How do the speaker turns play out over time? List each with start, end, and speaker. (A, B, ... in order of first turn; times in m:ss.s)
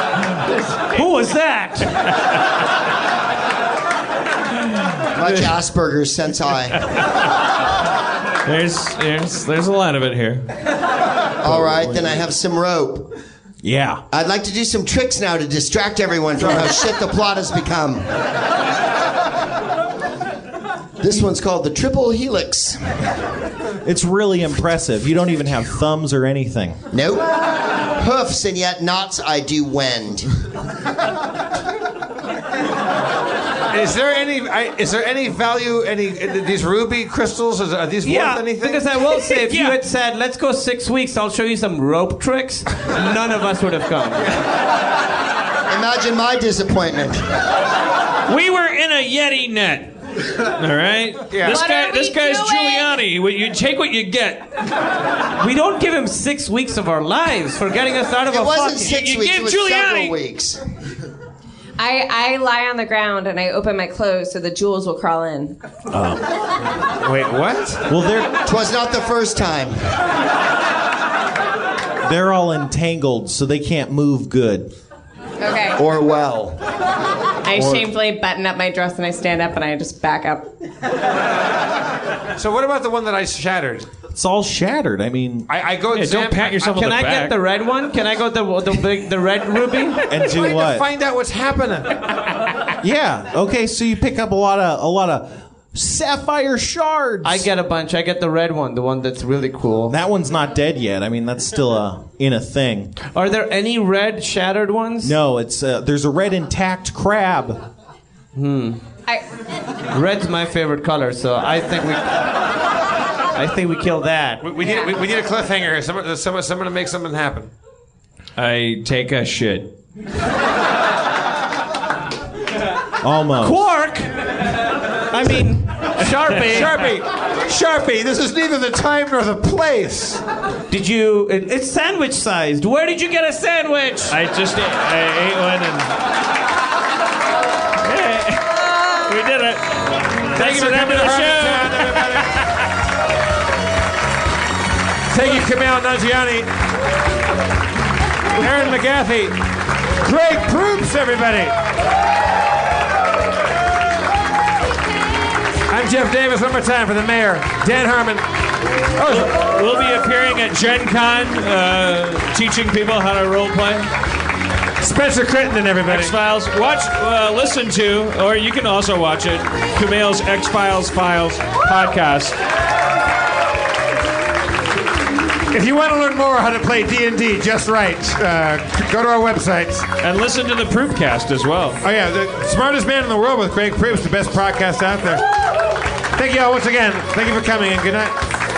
0:00.8-0:02.0 A
0:05.1-0:06.8 B
0:08.4-0:10.5 C
0:11.4-0:13.1 B
0:11.5-0:12.2 D
0:13.6-0:14.0 D
0:14.1-0:18.2 B
0:21.0-0:23.0 B
0:23.8-0:26.8 D
0:26.9-0:30.3 B
0:33.7-0:38.9 E
0:38.0-0:44.4 A
0:39.2-0:39.8 C
0:45.7-0:47.3 B
0:48.3-0:54.5 C
0:51.3-0:51.6 E
0:51.4-0:53.0 F
0:55.4-0:59.0 A
0:58.3-1:00.6 B
0:58.9-1:00.2 C
1:01.8-1:05.6 F
1:05.9-1:06.3 D
1:07.0-1:07.8 E
1:07.9-1:08.4 D
1:08.4-1:09.9 B
1:12.0-1:14.7 D
1:15.4-1:15.8 F
1:15.8-1:16.6 B
1:17.4-1:20.5 F
1:17.6-1:17.9 D
1:22.4-1:23.9 E
1:24.1-1:25.5 D
1:25.5-1:26.9 E
1:25.9-1:27.4 C
1:26.6-1:30.1 A
1:30.0-1:30.9 D
1:30.2-1:32.0 E
1:32.8-1:37.5 D
1:37.2-1:39.9 A
1:39.9-1:42.9 D
1:43.1-1:45.1 A
1:45.0-1:47.6 D
1:48.3-1:48.8 A
1:49.9-1:52.3 A
1:53.3-1:54.5 A
1:54.4-1:57.5 E
1:54.6-1:54.9 F
1:58.4-1:59.7 C
2:03.0-2:03.7 D
2:03.4-2:04.3 A
2:05.1-2:06.9 A
2:06.3-2:10.2 E
2:10.7-2:14.2 A
2:14.1-2:15.9 C
2:17.8-2:22.6 C
2:20.3-2:22.4 E
2:20.5-2:20.8 A
2:25.1-2:26.5 E
2:28.3-2:29.4 E
2:30.0-2:31.5 E
2:35.7-2:38.2 E
2:39.0-2:39.4 E
2:39.1-2:43.9 C
2:44.8-2:46.2 E
2:45.9-2:52.4 C
2:55.5-2:59.9 E
3:00.0-3:01.8 C
3:01.8-3:05.2 E
3:06.1-3:08.2 E